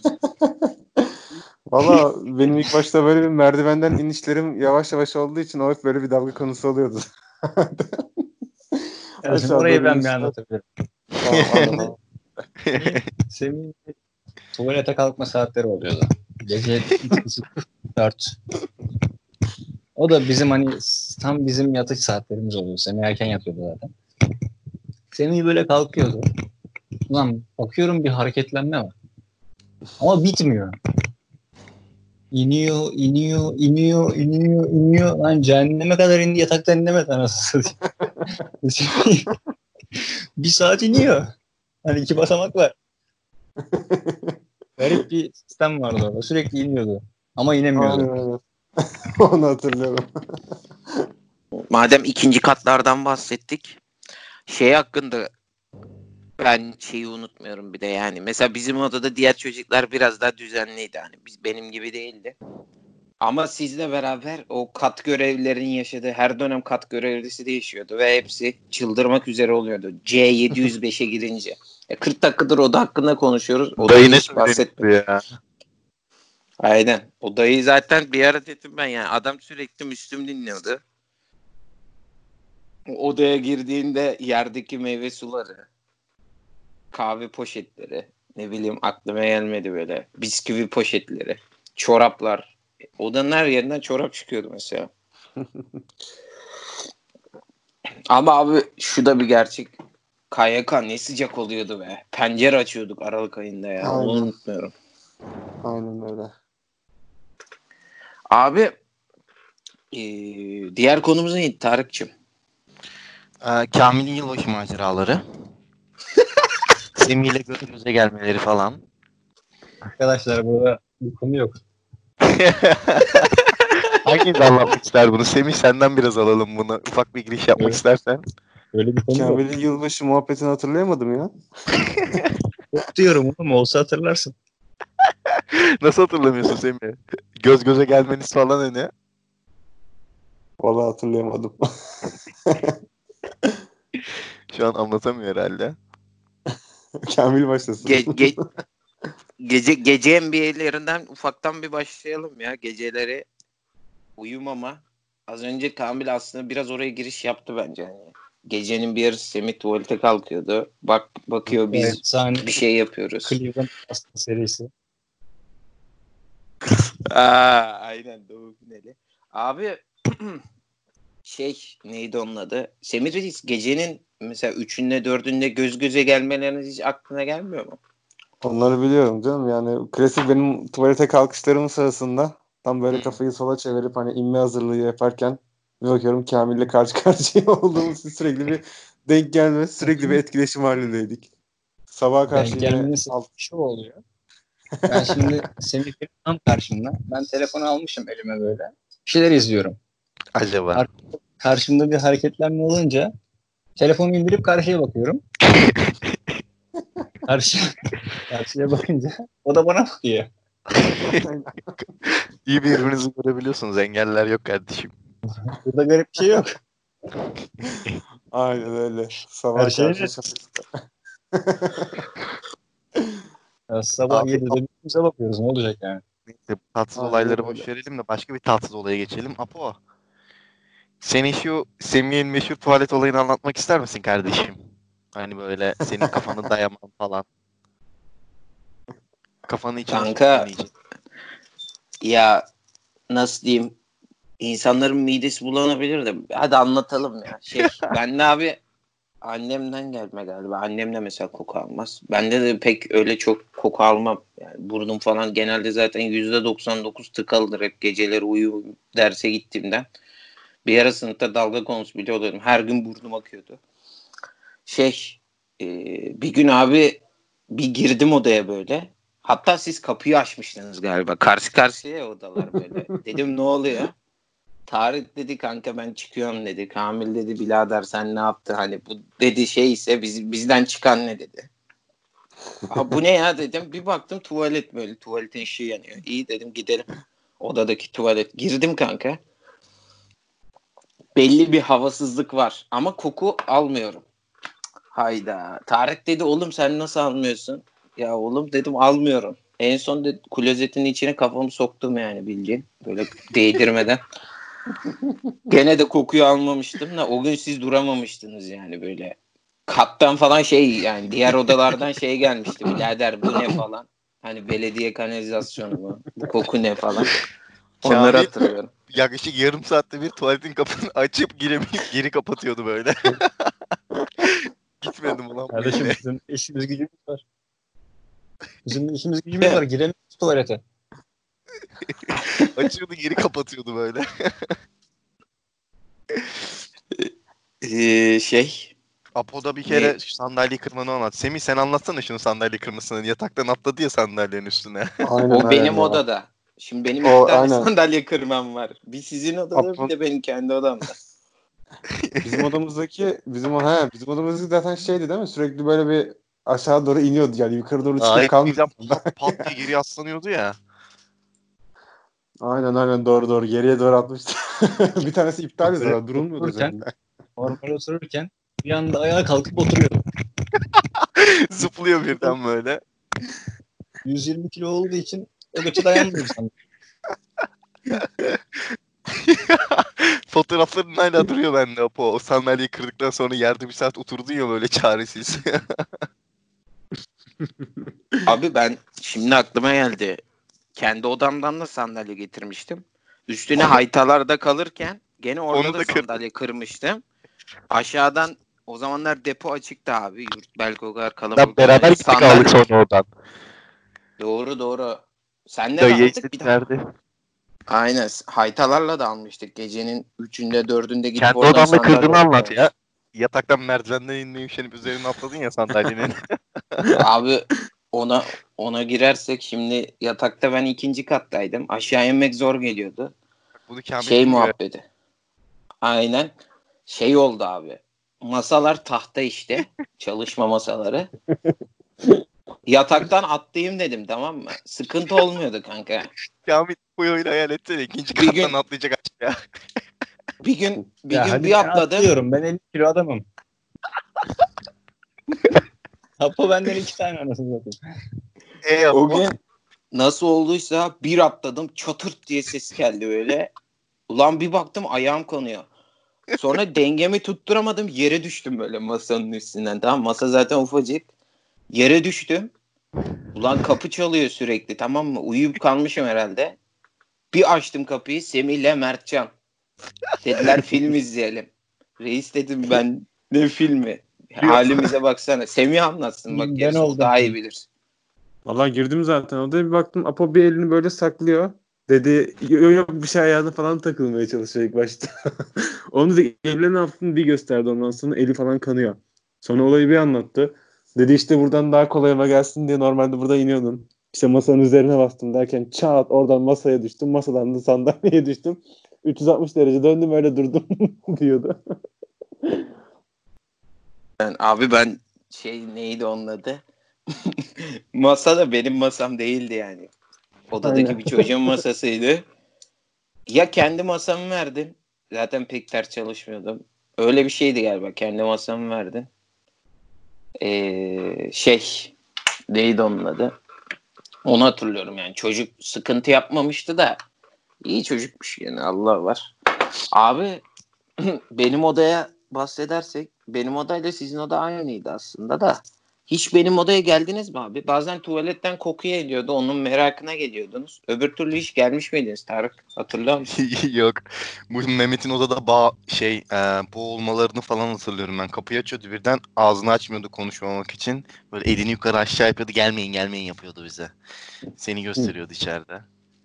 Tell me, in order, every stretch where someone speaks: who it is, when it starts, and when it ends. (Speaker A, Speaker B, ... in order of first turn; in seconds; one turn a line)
Speaker A: 0.4-0.7
Speaker A: 1.7-8.2
Speaker B: 9.2-10.7
Speaker A: 9.2-10.3
Speaker A: 11.2-11.9
Speaker C: 11.2-11.9
Speaker C: 12.6-13.1
Speaker B: 12.8-13.9
Speaker B: 14.5-18.4
Speaker B: 19.9-23.9
Speaker B: 25.1-26.2
Speaker B: 27.1-28.9
Speaker B: 30.0-30.7
Speaker B: 32.3-37.9
Speaker A: 38.0-38.3
Speaker B: 38.5-39.3
Speaker B: 39.9-41.3
Speaker B: 41.8-42.7
Speaker A: 43.6-44.3
Speaker B: 44.8-48.1
Speaker A: 47.8-50.0
Speaker D: 51.6-53.8
Speaker D: 54.5-55.3
Speaker D: 56.4-62.4
Speaker D: 63.2-74.9
Speaker C: 73.8-75.2
Speaker D: 76.6-80.8
Speaker D: 82.9-85.7
Speaker D: 86.9-94.9
Speaker A: 95.4-95.8
Speaker D: 98.1-99.7
Speaker D: 100.3-104.7
Speaker A: 103.8-104.3
Speaker A: 105.6-106.3
Speaker D: 108.3-108.7
Speaker D: 109.9-112.1
Speaker C: 113.4-115.2
Speaker C: 117.0-118.8
Speaker B: 120.0-121.6
Speaker C: 122.2-123.4
Speaker C: 124.0-128.2
Speaker B: 128.7-129.4
Speaker A: 129.1-131.3
Speaker C: 131.9-132.4
Speaker B: 132.7-134.3
Speaker C: 135.3-138.9
Speaker A: 140.6-141.6
Speaker A: 142.4-142.7
Speaker C: 144.5-145.7
Speaker A: 147.1-148.4
Speaker D: 147.8-148.4
Speaker D: 149.4-153.3
Speaker D: 154.2-163.4
Speaker B: 161.7-162.6
Speaker B: 163.2-164.7
Speaker D: 167.1-170.4
Speaker D: 171.2-177.8
Speaker A: 178.4-191.3
Speaker C: 182.9-183.2
Speaker B: 189.8-190.2
Speaker A: 191.9-193.2
Speaker B: 192.3-194.0
Speaker A: 194.8-195.3
Speaker B: 194.9-199.8
Speaker C: 200.3-200.8
Speaker B: 200.7-203.1
Speaker B: 203.8-205.2
Speaker C: 205.5-206.4
Speaker B: 207.2-207.7
Speaker B: 208.3-210.3
Speaker C: 210.8-211.3
Speaker A: 211.2-211.6
Speaker C: 212.0-214.9
Speaker B: 215.3-216.6
Speaker A: 217.6-220.7
Speaker B: 219.6-220.1
Speaker A: 221.3-222.1
Speaker B: 223.7-226.0
Speaker C: 224.1-224.6
Speaker C: 226.3-229.8
Speaker A: 226.9-227.7
Speaker C: 231.0-234.6
Speaker C: 235.1-237.2
Speaker C: 239.5-240.7
Speaker D: 239.9-240.5
Speaker D: 242.0-242.4
Speaker D: 243.1-243.8
Speaker D: 244.4-248.6
Speaker D: 249.2-259.9
Speaker D: 260.6-263.6
Speaker D: 264.6-267.0
Speaker D: 267.5-273.9
Speaker D: 274.7-281.5
Speaker D: 282.7-286.9
Speaker D: 287.4-289.2
Speaker D: 291.1-294.0
Speaker D: 294.9-304.0
Speaker D: 305.5-309.1
Speaker D: 309.7-317.1
Speaker C: 317.8-323.5
Speaker D: 317.8-318.7
Speaker C: 324.2-326.0
Speaker B: 325.5-327.2
Speaker B: 328.6-330.6
Speaker C: 331.9-334.5
Speaker D: 337.6-338.7
Speaker C: 339.1-345.0
Speaker D: 339.6-339.9
Speaker A: 345.0-346.0
Speaker D: 345.3-350.9
Speaker A: 347.0-347.7
Speaker C: 349.5-349.9
Speaker C: 351.9-352.5
Speaker A: 352.2-359.4
Speaker C: 358.0-360.6
Speaker A: 362.4-366.9
Speaker B: 365.7-366.8
Speaker B: 367.4-370.0
Speaker C: 371.0-372.8
Speaker B: 374.0-376.5
Speaker C: 377.9-378.6
Speaker C: 379.1-385.8
Speaker A: 387.4-387.9
Speaker D: 388.2-390.2
Speaker D: 390.7-397.0
Speaker C: 395.5-396.1
Speaker D: 397.7-402.5
Speaker C: 401.3-403.1
Speaker D: 404.2-406.5
Speaker C: 405.8-406.8
Speaker D: 407.7-412.6
Speaker C: 411.2-416.9
Speaker D: 417.0-423.1
Speaker C: 423.7-424.5
Speaker D: 424.0-424.8
Speaker D: 425.8-426.3
Speaker D: 426.9-431.1
Speaker A: 431.4-432.2
Speaker D: 432.7-436.1
Speaker C: 436.4-439.4
Speaker D: 438.1-438.5
Speaker D: 440.4-442.1
Speaker B: 441.1-443.2
Speaker B: 446.2-447.8
Speaker C: 448.6-449.3
Speaker D: 448.9-449.4
Speaker D: 449.9-453.5
Speaker D: 454.1-455.7
Speaker D: 456.3-461.1
Speaker D: 461.7-462.5
Speaker D: 463.3-466.6
Speaker D: 467.3-469.3
Speaker D: 470.2-477.6
Speaker C: 474.4-474.9
Speaker B: 476.3-477.4
Speaker A: 478.4-485.1
Speaker A: 485.9-501.6
Speaker D: 504.2-506.6
Speaker D: 507.2-509.9
Speaker D: 510.5-512.2
Speaker A: 510.6-511.6
Speaker D: 513.3-519.1
Speaker D: 520.4-521.9
Speaker D: 522.5-523.3
Speaker D: 524.2-527.0
Speaker D: 527.6-529.3
Speaker D: 529.9-530.4
Speaker D: 531.0-543.3
Speaker C: 543.2-553.9
Speaker C: 554.6-555.9